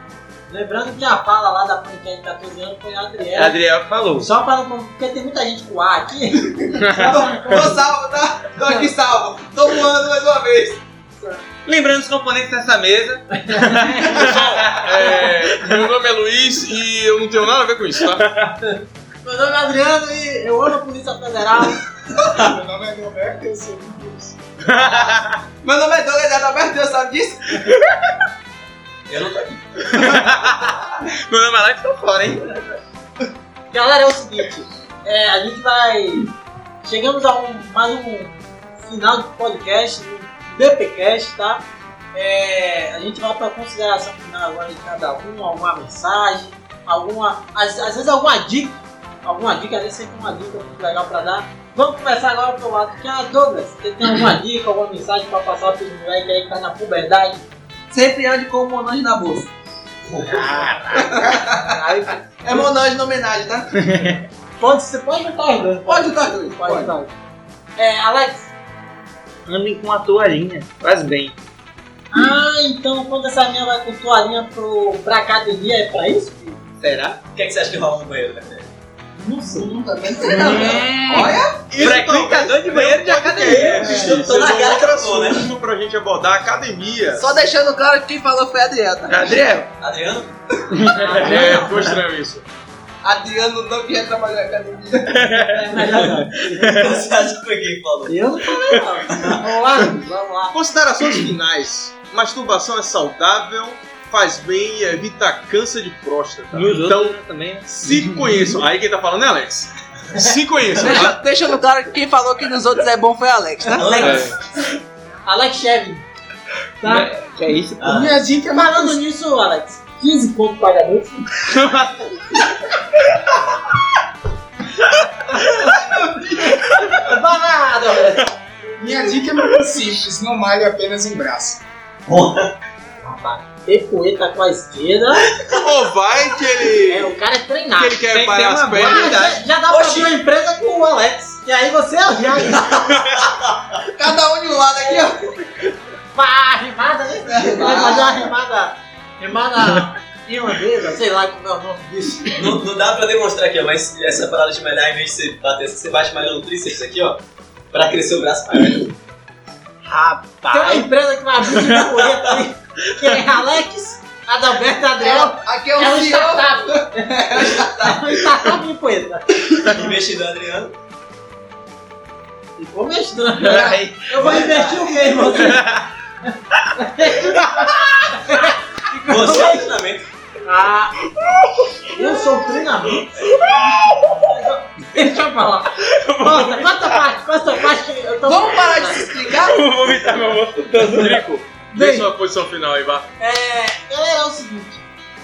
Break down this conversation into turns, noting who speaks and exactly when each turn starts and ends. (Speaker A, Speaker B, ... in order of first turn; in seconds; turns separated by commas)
Speaker A: 0.5-3.6, Speaker B: 3.3-4.3, Speaker A: 4.1-7.7, Speaker B: 6.8-7.6, Speaker C: 6.9-10.8, Speaker B: 11.6-15.9, Speaker A: 13.4-14.3, Speaker D: 14.1-18.3, Speaker A: 18.6-21.8, Speaker E: 22.3-24.4, Speaker B: 24.6-25.4, Speaker C: 25.6-27.6, Speaker F: 29.1-30.0, Speaker B: 29.9-32.6, Speaker A: 33.7-36.3, Speaker A: 36.8-57.4, Speaker C: 57.9-59.5, Speaker F: 60.1-60.4, Speaker B: 60.3-61.5, Speaker C: 60.9-61.8, Speaker A: 61.4-62.1, Speaker C: 62.4-63.7, Speaker B: 63.8-64.2, Speaker A: 64.6-67.1, Speaker C: 65.8-66.9, Speaker A: 67.8-68.5, Speaker B: 69.5-71.3, Speaker A: 72.1-76.6, Speaker B: 76.8-77.2, Speaker F: 77.3-78.7, Speaker A: 79.1-80.3, Speaker C: 79.5-81.7, Speaker B: 80.2-84.1, Speaker D: 81.7-87.3, Speaker F: 83.5-85.5, Speaker C: 83.6-84.7, Speaker C: 87.1-89.5, Speaker B: 89.1-89.7, Speaker F: 89.8-90.3, Speaker B: 90.8-91.7, Speaker A: 90.9-91.7, Speaker D: 91.2-92.4, Speaker C: 93.0-95.4, Speaker B: 95.1-97.0, Speaker A: 95.5-97.0, Speaker F: 96.7-98.2, Speaker A: 98.0-100.5, Speaker F: 99.0-99.4, Speaker D: 100.5-111.2, Speaker B: 106.5-108.4, Speaker C: 110.8-114.2, Speaker F: 113.8-114.4, Speaker A: 113.8-114.2, Speaker D: 114.0-114.3, Speaker A: 115.2-116.0, Speaker A: 116.8-117.2, Speaker B: 116.8-118.1, Speaker F: 117.8-118.2, Speaker E: 117.9-119.0, Speaker A: 118.5-121.5, Speaker B: 121.5-121.9, Speaker B: 125.4-125.8, Speaker A: 126.9-128.3, Speaker E: 128.8-131.6, Speaker F: 132.1-132.5, Speaker A: 133.0-135.3, Speaker D: 135.4-137.1, Speaker A: 136.8-138.0, Speaker D: 137.7-139.2, Speaker B: 138.1-139.4, Speaker A: 138.8-143.0, Speaker F: 139.7-140.1, Speaker F: 143.2-143.6, Speaker C: 143.9-145.3, Speaker A: 146.1-152.4, Speaker C: 147.2-148.3, Speaker F: 152.3-158.9, Speaker B: 159.8-160.9, Speaker A: 160.5-169.9, Speaker C: 165.0-168.2, Speaker F: 169.6-170.7, Speaker A: 172.6-175.6, Speaker B: 173.4-175.9, Speaker F: 174.2-174.9, Speaker A: 176.8-179.7, Speaker B: 177.2-178.4, Speaker F: 179.1-180.1, Speaker A: 180.4-181.0, Speaker B: 181.2-184.2, Speaker A: 181.9-189.1, Speaker B: 185.8-187.1, Speaker C: 188.2-189.7, Speaker B: 189.2-191.3, Speaker D: 190.8-193.1, Speaker A: 191.7-192.1, Speaker A: 193.2-194.8